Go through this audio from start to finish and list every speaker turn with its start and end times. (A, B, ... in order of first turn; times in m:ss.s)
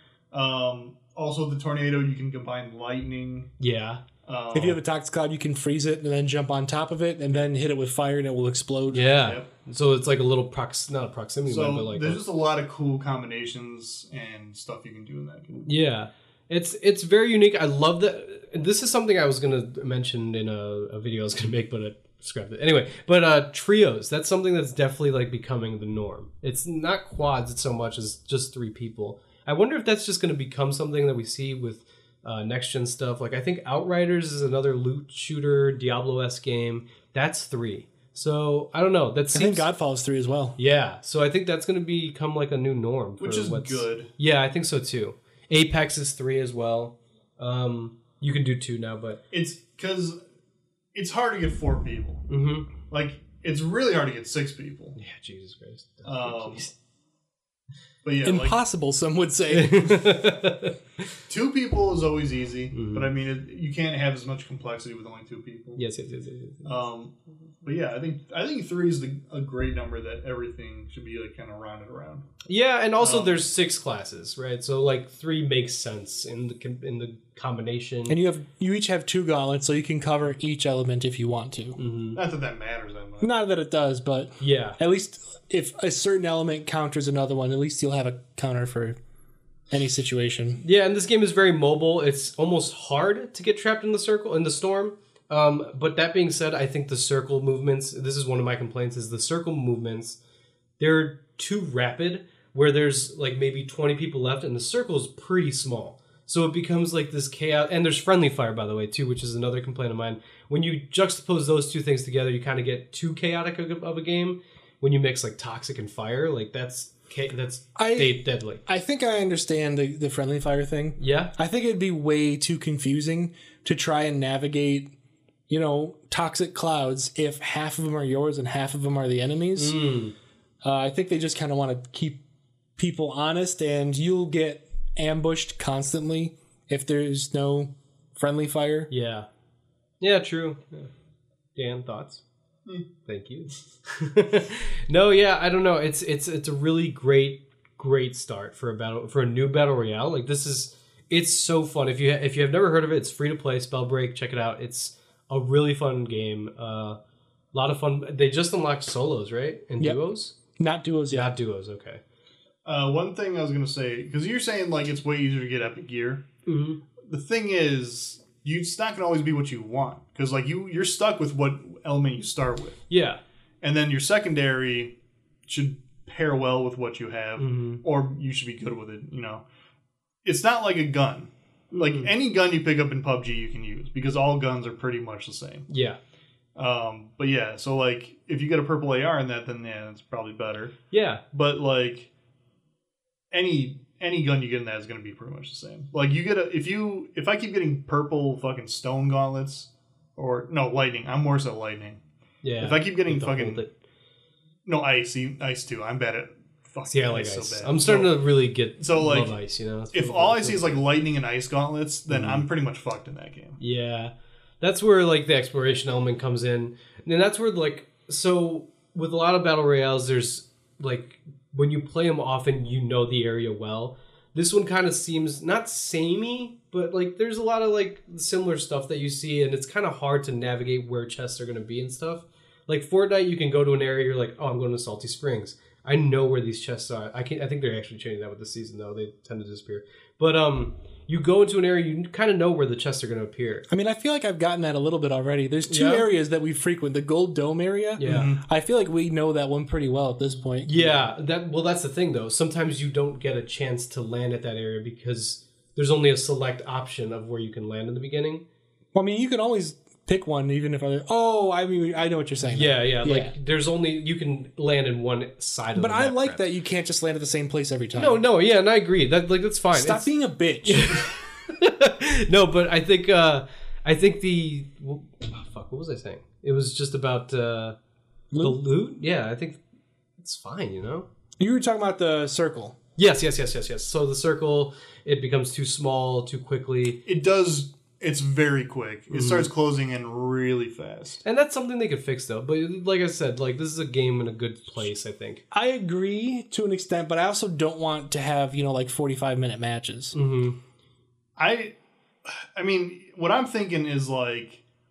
0:00.3-0:03.5 A
0:03.6-0:04.0 B
0:04.2-0:04.8 A
0:04.5-0:09.1 C
0:08.9-0:12.2 B
0:11.5-0:15.7 A
0:15.6-0:39.7 B
0:39.3-0:40.6 C
0:40.6-0:49.2 B
0:43.2-0:44.1 A
0:49.3-0:50.2 A
0:50.9-0:52.3 A
0:52.3-0:52.7 B
0:52.8-0:55.0 A
0:55.0-0:56.7 B
0:56.0-0:56.6 A
0:58.0-0:58.6 A
0:58.2-1:00.2 C
0:59.5-1:01.0 B
1:01.3-1:05.8 A
1:02.7-1:03.1 B
1:05.8-1:06.7 B
1:06.6-1:12.3 A
1:12.5-1:18.2 B
1:13.0-1:13.4 A
1:18.1-1:21.8 C
1:21.8-1:22.2 B
1:22.2-1:23.3 A
1:23.2-1:29.0 C
1:24.4-1:24.8 B
1:29.7-1:30.6 C
1:30.6-1:40.2 B
1:40.8-1:58.6 B
1:57.8-2:04.9 C
2:01.0-2:01.3 B
2:05.5-2:09.8 C
2:09.6-2:10.1 B
2:10.6-2:12.2 C
2:12.8-2:18.9 C
2:18.9-2:19.3 B
2:20.0-2:20.9 B
2:21.6-2:22.2 B
2:23.0-2:37.0 B
2:37.5-2:40.3 B
2:40.6-2:41.3 C
2:41.1-2:42.0 B
2:42.6-2:46.3 A
2:46.4-2:46.8 B
2:47.0-2:52.8 A
2:52.9-2:53.2 B
2:53.6-2:54.9 A
2:55.5-2:59.4 A
2:57.4-2:57.8 B
3:00.2-3:05.7 A
3:01.7-3:02.1 B
3:05.7-3:06.0 B
3:06.6-3:10.8 A
3:10.9-3:11.2 B
3:11.3-3:12.1 A
3:13.3-3:22.0 A
3:22.4-3:23.7 B
3:22.6-3:23.6 A
3:24.6-3:28.2 A
3:26.8-3:30.7 B
3:28.8-3:29.4 A
3:29.9-3:33.6 A
3:32.1-3:32.4 B
3:33.6-4:03.7 B
4:03.7-4:11.0 C
4:05.7-4:06.1 B
4:08.0-4:08.3 B
4:08.0-4:08.4 A
4:10.6-4:18.4 B
4:18.9-4:23.3 C
4:22.4-4:26.4 B
4:25.8-4:28.2 C
4:27.9-4:30.1 B
4:29.7-4:31.0 C
4:30.6-4:37.8 B
4:38.3-4:38.6 C
4:38.4-4:39.6 B
4:40.2-4:41.1 B
4:41.4-4:42.8 C
4:43.0-4:47.0 B
4:47.0-4:51.2 A
4:49.1-4:49.5 B
4:51.2-4:55.4 B
4:55.5-5:00.1 C
5:00.1-5:00.6 B
5:01.4-5:01.7 A
5:02.3-5:04.6 A